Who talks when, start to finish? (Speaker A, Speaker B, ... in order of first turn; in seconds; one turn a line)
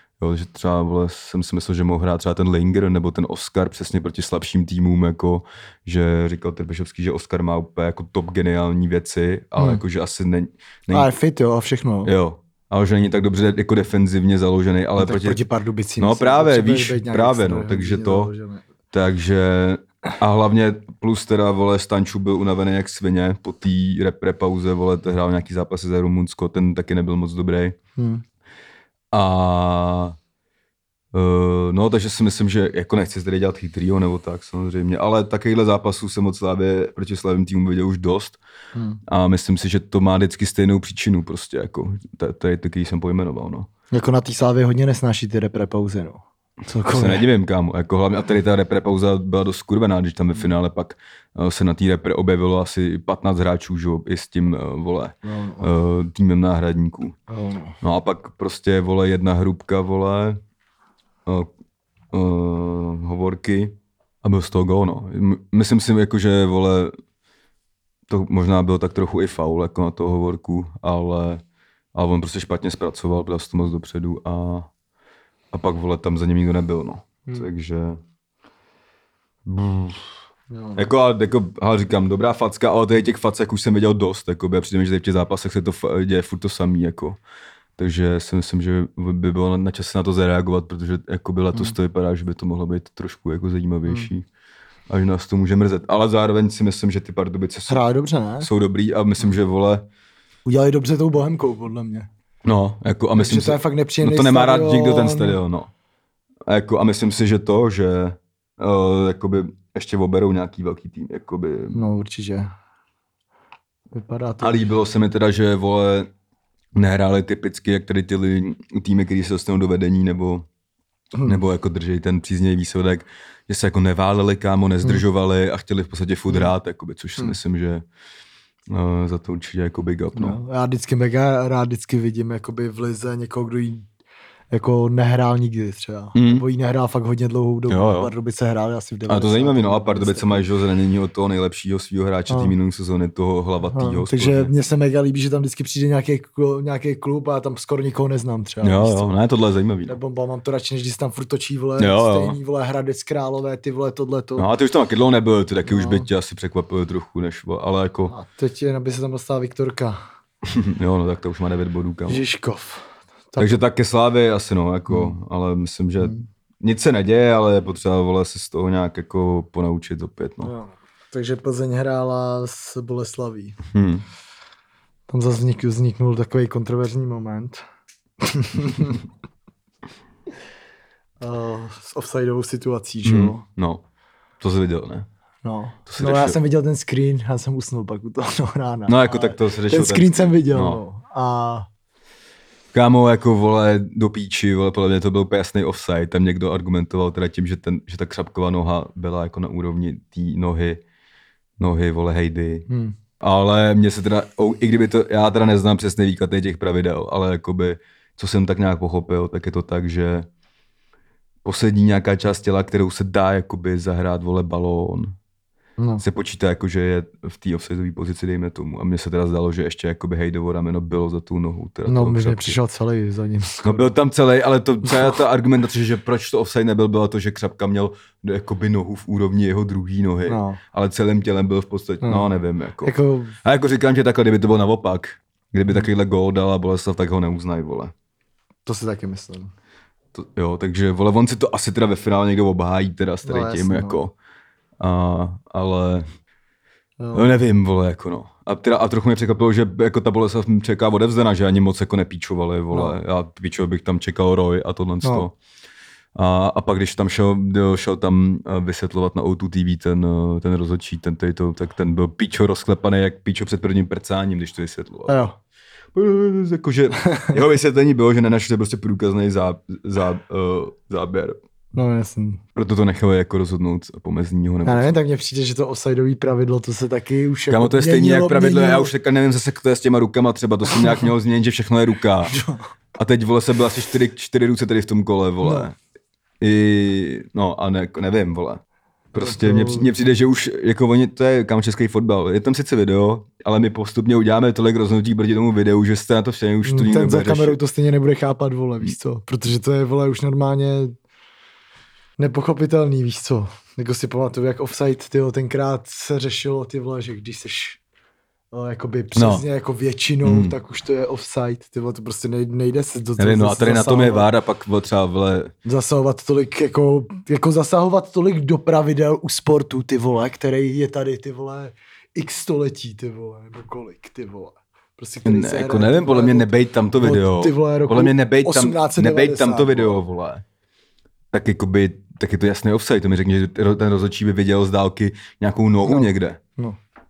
Speaker A: 0.2-11.1
Speaker B: 10.9-12.1
Speaker A: 12.0-15.4
Speaker B: 15.0-18.6
Speaker A: 16.0-18.3
Speaker A: 18.9-27.8
Speaker B: 27.9-28.2
Speaker A: 29.1-30.1
Speaker A: 31.1-38.4
Speaker B: 38.7-39.0
Speaker A: 39.1-43.7
Speaker B: 43.9-47.2
Speaker A: 46.9-57.1
Speaker B: 55.2-55.7
Speaker B: 57.3-57.8
Speaker A: 57.8-60.4
Speaker A: 62.1-66.9
Speaker A: 68.1-71.4
Speaker A: 71.9-74.7
Speaker A: 75.5-78.0
Speaker A: 79.5-80.2
Speaker B: 80.5-80.9
Speaker A: 80.8-87.2
Speaker A: 87.8-94.2
Speaker B: 93.8-94.1
Speaker A: 94.9-97.8
Speaker B: 97.7-98.5
Speaker A: 98.4-99.9
Speaker B: 100.4-102.1
Speaker A: 102.4-105.7
Speaker B: 103.2-105.4
Speaker A: 106.5-111.8
Speaker B: 111.7-112.5
Speaker B: 113.9-114.6
Speaker A: 114.4-116.1
Speaker A: 116.7-120.5
Speaker B: 121.1-121.4
Speaker A: 121.2-127.8
Speaker A: 128.7-130.4
Speaker B: 130.2-133.9
Speaker B: 134.5-140.5
Speaker A: 136.1-136.4
Speaker A: 137.7-138.1
Speaker A: 139.1-144.5
Speaker B: 142.3-142.5
Speaker B: 143.6-149.1
Speaker A: 148.6-149.9
Speaker B: 149.9-154.5
Speaker A: 151.8-152.4
Speaker A: 154.4-158.1
Speaker B: 155.7-156.1
Speaker B: 158.1-160.0
Speaker A: 160.4-162.2
Speaker B: 162.1-163.6
Speaker A: 163.4-170.5
Speaker B: 164.9-165.2
Speaker B: 170.4-173.6
Speaker A: 173.7-174.0
Speaker B: 175.1-177.6
Speaker B: 178.2-179.0
Speaker B: 181.2-183.4
Speaker A: 183.0-183.8
Speaker A: 184.4-185.1
Speaker B: 185.4-191.7
Speaker A: 185.9-186.4
Speaker A: 188.9-190.8
Speaker A: 192.7-200.8
Speaker A: 201.6-202.7
Speaker B: 202.7-202.9
Speaker A: 203.2-210.3
Speaker A: 211.4-215.2
Speaker B: 215.8-216.0
Speaker A: 216.0-222.6
Speaker B: 221.9-223.9
Speaker A: 223.6-237.9
Speaker B: 230.3-230.6
Speaker B: 232.0-232.3
Speaker B: 232.8-233.4
Speaker B: 238.7-239.5
Speaker A: 240.1-244.1
Speaker B: 243.2-244.0
Speaker A: 244.8-246.1
Speaker B: 247.0-247.3
Speaker A: 247.1-255.3
Speaker B: 252.7-253.0
Speaker B: 255.0-255.3
Speaker A: 256.1-265.2
Speaker B: 265.1-265.4
Speaker A: 265.9-271.4
Speaker B: 271.7-272.4
Speaker A: 272.5-274.9
Speaker B: 274.6-278.9
Speaker A: 277.5-282.4
Speaker B: 280.7-281.1
Speaker B: 282.3-282.7
Speaker A: 282.9-285.7
Speaker B: 285.4-285.7
Speaker A: 286.4-288.6
Speaker A: 289.1-297.6
Speaker B: 289.1-289.9
Speaker B: 296.6-300.9
Speaker B: 302.2-307.8
Speaker B: 308.5-314.3
Speaker A: 309.1-309.4
Speaker A: 310.2-310.6
Speaker A: 313.2-315.5
Speaker B: 315.6-330.0
Speaker A: 325.2-330.4
Speaker A: 331.3-336.4
Speaker B: 335.8-336.8